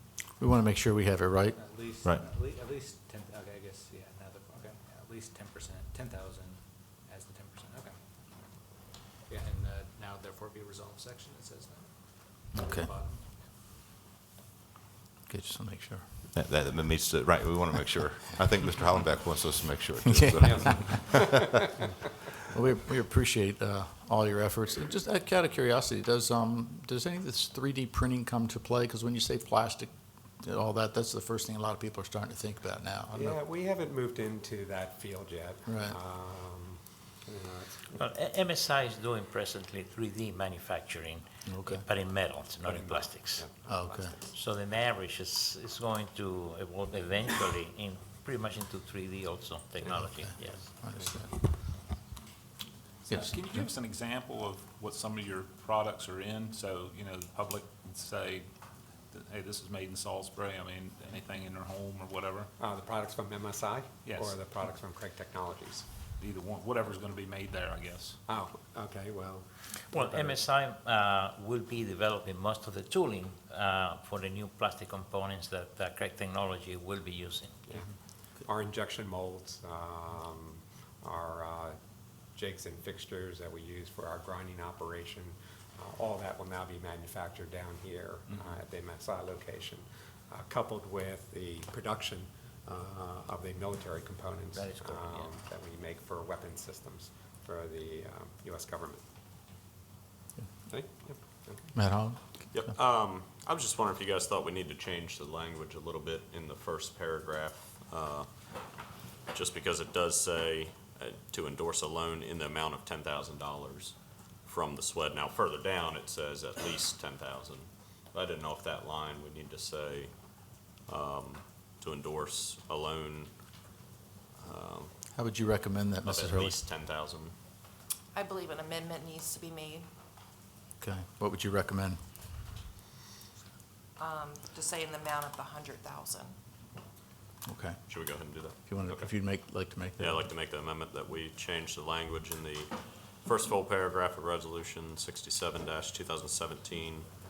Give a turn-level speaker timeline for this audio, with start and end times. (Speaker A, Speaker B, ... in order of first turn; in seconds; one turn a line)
Speaker A: 0.4-1.6
Speaker B: 1.6-8.0
Speaker B: 9.2-13.3
Speaker A: 12.5-12.9
Speaker A: 15.3-16.1
Speaker C: 16.3-21.5
Speaker A: 20.1-21.0
Speaker D: 20.4-21.4
Speaker A: 22.5-29.9
Speaker A: 30.4-33.4
Speaker D: 33.1-38.0
Speaker A: 35.7-36.0
Speaker E: 37.9-43.5
Speaker A: 41.5-41.9
Speaker D: 42.6-44.4
Speaker A: 43.7-44.1
Speaker E: 44.3-50.6
Speaker D: 49.8-50.5
Speaker A: 50.8-51.4
Speaker F: 53.0-58.5
Speaker A: 53.1-53.7
Speaker F: 59.1-62.5
Speaker D: 62.6-65.8
Speaker F: 64.0-64.4
Speaker F: 66.2-68.2
Speaker D: 68.3-70.4
Speaker E: 69.9-77.8
Speaker D: 77.7-81.8
Speaker D: 82.3-99.0
Speaker F: 88.3-88.6
Speaker E: 94.5-95.3
Speaker D: 100.7-101.7
Speaker A: 101.7-102.7
Speaker G: 102.5-108.3
Speaker G: 109.3-120.1
Speaker G: 120.9-123.3
Speaker G: 124.4-124.9
Speaker A: 125.2-126.6
Speaker G: 126.0-127.3
Speaker H: 128.1-129.9
Speaker A: 130.8-132.0
Speaker H: 134.0-136.3
Speaker A: 137.4-140.3
Speaker G: 137.9-139.1
Speaker G: 140.0-142.7
Speaker G: 143.2-147.1